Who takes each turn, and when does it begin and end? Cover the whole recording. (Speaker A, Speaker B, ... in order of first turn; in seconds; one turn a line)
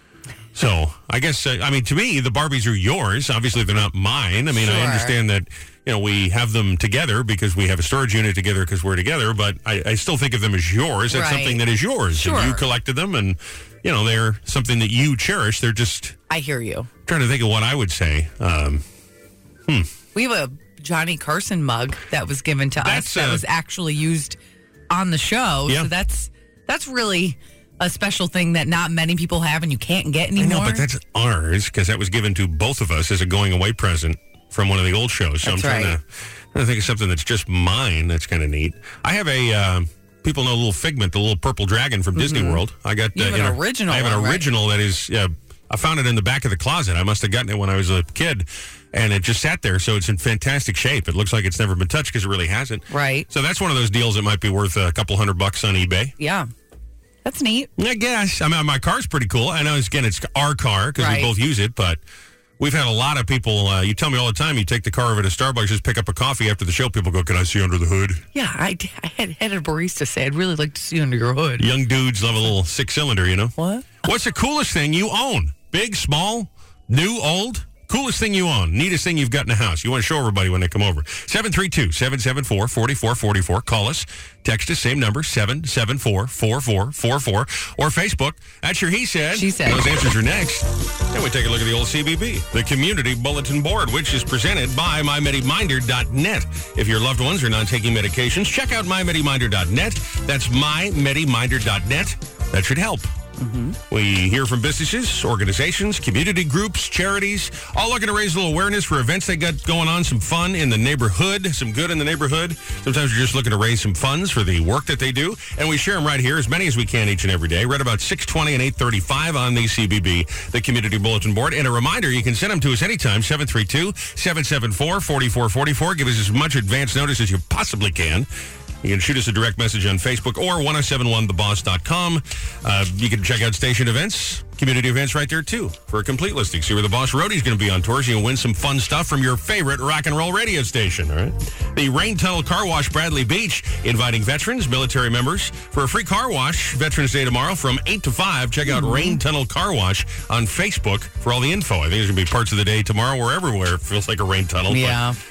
Speaker A: 0.6-16.2
Speaker B: 4.5-5.2
Speaker B: 11.1-12.6
Speaker B: 16.3-16.9
Speaker A: 17.1-18.8
Speaker B: 20.1-24.4
Speaker A: 22.8-23.4
Speaker B: 24.9-30.8
Speaker A: 30.4-36.0
Speaker B: 35.4-36.0
Speaker A: 36.5-56.1
Speaker B: 42.1-42.6
Speaker B: 43.1-44.5
Speaker B: 52.9-53.3
Speaker B: 56.2-56.5
Speaker B: 57.2-57.7
Speaker A: 57.8-62.0
Speaker B: 61.0-61.3
Speaker A: 62.6-68.2
Speaker B: 68.3-71.7
Speaker A: 71.6-103.1
Speaker B: 73.6-73.9
Speaker B: 89.3-90.0
Speaker B: 103.4-103.8
Speaker A: 103.9-128.3
Speaker A: 128.8-155.0
Speaker B: 148.7-149.2
Speaker B: 154.7-155.2